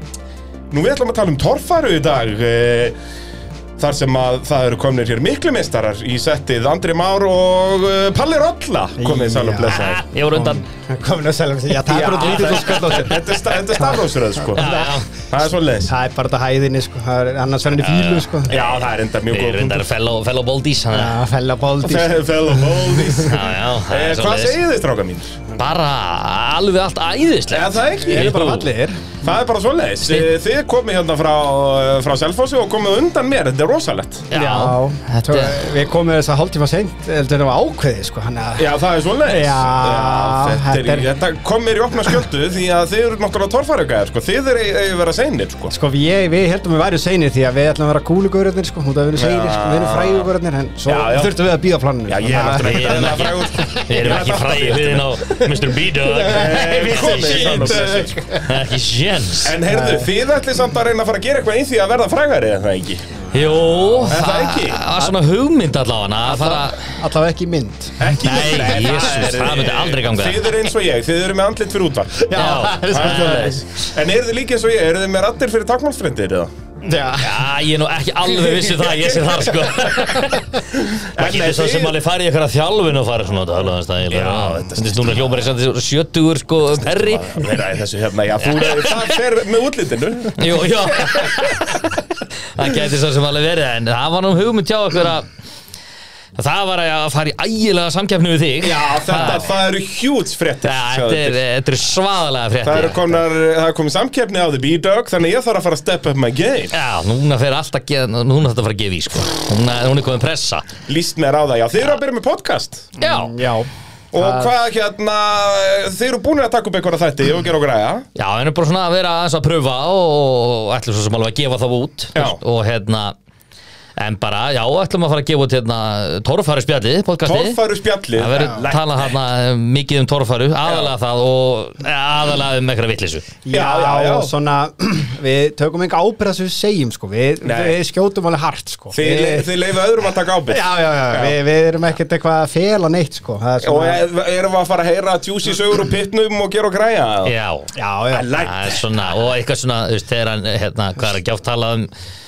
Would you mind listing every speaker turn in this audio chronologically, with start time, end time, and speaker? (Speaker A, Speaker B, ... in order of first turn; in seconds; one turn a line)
Speaker A: 0.7-3.0
Speaker A: 3.8-10.0
Speaker B: 9.0-15.0
Speaker C: 9.7-10.6
Speaker A: 11.9-14.7
Speaker C: 12.2-12.7
Speaker C: 14.6-15.1
Speaker A: 15.3-15.9
Speaker B: 15.9-18.6
Speaker C: 17.8-18.8
Speaker A: 18.5-19.9
Speaker C: 19.3-21.1
Speaker B: 20.9-23.4
Speaker A: 21.8-25.4
Speaker C: 23.3-24.6
Speaker C: 25.6-28.7
Speaker A: 27.5-28.3
Speaker B: 28.0-29.0
Speaker A: 29.2-34.3
Speaker C: 30.0-30.3
Speaker C: 34.3-35.6
Speaker B: 34.3-38.7
Speaker A: 38.6-45.7
Speaker B: 39.3-41.1
Speaker B: 45.7-53.3
Speaker A: 49.1-50.3
Speaker A: 50.9-51.4
Speaker A: 52.1-55.2
Speaker C: 52.6-59.6
Speaker B: 56.1-58.5
Speaker A: 56.2-58.4
Speaker A: 59.4-63.0
Speaker B: 59.7-60.1
Speaker B: 63.3-64.2
Speaker C: 63.3-66.9
Speaker A: 64.1-64.8
Speaker B: 66.2-68.7
Speaker A: 68.0-72.3
Speaker C: 68.1-70.5
Speaker B: 72.2-73.8
Speaker C: 72.3-73.5
Speaker A: 72.9-76.5
Speaker B: 76.8-77.5
Speaker C: 77.2-80.6
Speaker A: 78.9-79.3
Speaker A: 80.8-82.0
Speaker C: 81.2-87.6
Speaker A: 84.1-85.5
Speaker A: 86.9-91.8
Speaker C: 88.4-89.2
Speaker C: 90.3-95.3
Speaker C: 96.4-99.5
Speaker A: 98.6-101.4
Speaker C: 100.7-103.2
Speaker A: 102.6-106.7
Speaker C: 106.7-110.7
Speaker A: 110.9-112.9
Speaker B: 113.0-114.5
Speaker C: 113.0-113.4
Speaker A: 114.1-118.0
Speaker C: 118.2-123.2
Speaker A: 122.2-122.4
Speaker C: 124.0-127.6
Speaker A: 127.2-129.1
Speaker C: 128.1-133.3
Speaker A: 130.7-130.9
Speaker B: 133.4-139.7
Speaker A: 133.5-134.3
Speaker A: 137.4-137.8
Speaker A: 138.9-141.4
Speaker B: 140.5-144.0
Speaker A: 143.6-147.3
Speaker C: 147.2-147.7
Speaker B: 147.8-148.3
Speaker A: 148.1-148.8
Speaker C: 148.3-151.9